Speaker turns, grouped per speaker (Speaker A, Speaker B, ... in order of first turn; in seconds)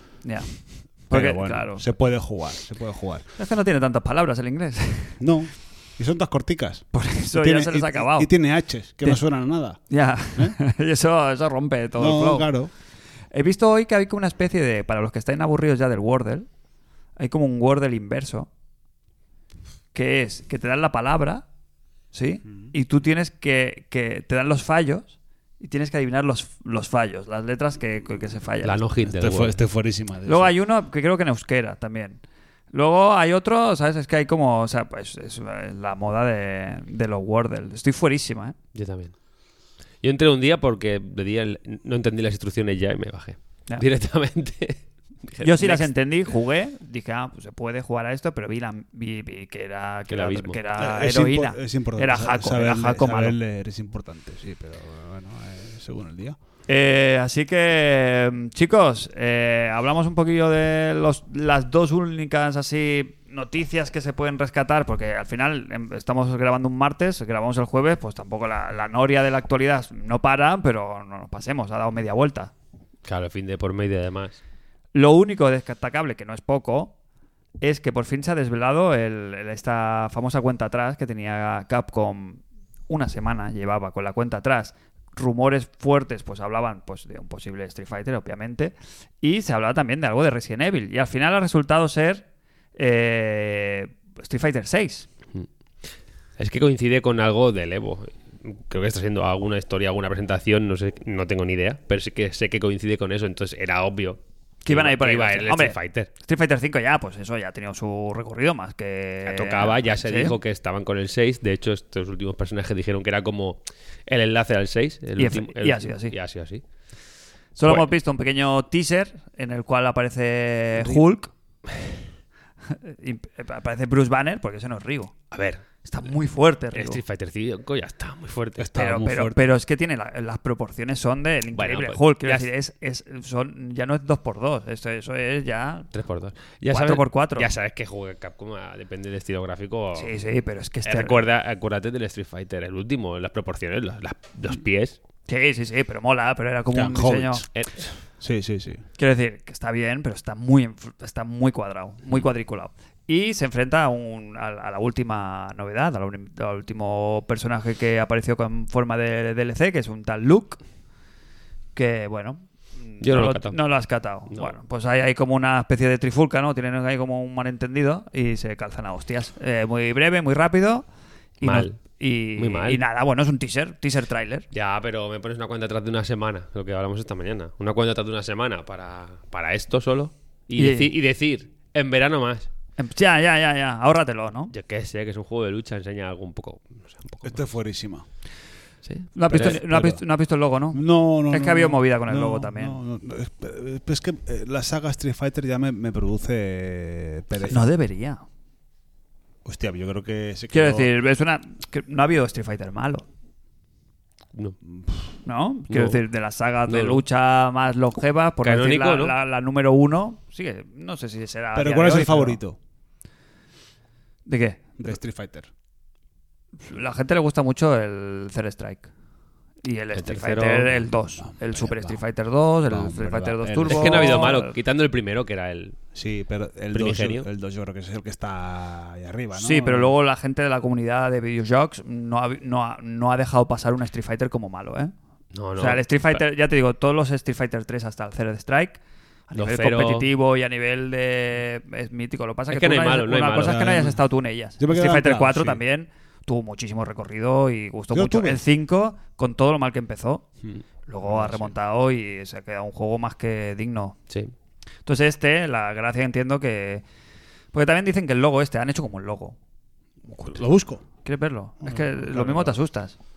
Speaker A: 1.1-1.8, 3.4-5.2, 6.9-8.3, 9.9-12.5, 13.3-16.5, 17.2-18.5, 19.9-21.4, 22.1-28.8, 30.2-32.2, 32.7-38.6, 45.4-53.4, 56.7-72.5, 74.9-76.9, 77.6-95.1, 104.6-110.4, 115.2-116.1, 117.6-121.3, 122.7-125.1, 125.8-127.0, 128.8-135.9, 136.7-137.5, 139.9-141.2, 145.3-147.4, 149.0-160.6, 161.7-170.8, 171.4-174.4, 180.6-180.9, 182.8-184.5, 189.1-192.8, 197.5-198.2, 200.5-203.0, 205.2-212.4, 214.2-214.7, 216.6-218.9, 219.6-224.5, 229.3-234.9, 235.6-250.2, 250.8-254.0, 254.8-256.8, 257.5-259.4, 261.0-262.9
Speaker B: 1.1-3.2, 5.2-9.8, 12.0-12.7, 29.0-30.5, 50.8-56.4, 128.6-129.4, 146.7-147.5, 148.2-148.8, 187.2-188.0, 189.3-190.0, 190.7-197.7, 199.4-200.9, 204.7-204.9, 211.5-212.6, 214.8-215.5, 221.2-222.0, 222.7-224.3, 225.9-229.9, 243.4-244.0, 244.6-245.6, 247.9-248.4, 250.4-251.5, 260.1-260.8, 261.6-262.6
Speaker C: 28.6-29.6, 38.8-39.1, 40.0-45.9, 50.1-50.6, 73.0-74.4, 96.4-106.1, 109.2-116.6, 125.3-125.6, 126.7-128.7, 131.5-132.5, 135.9-140.1, 140.8-144.9, 147.5-147.9, 163.0-163.6, 171.4-171.8, 172.4-172.8, 174.5-182.5, 184.5-187.4, 188.8-189.6, 205.7-206.0, 206.7-207.0, 208.4-209.1, 219.9-220.8, 223.7-225.8, 226.7-227.3, 235.3-236.2, 239.3-240.1, 242.5-243.7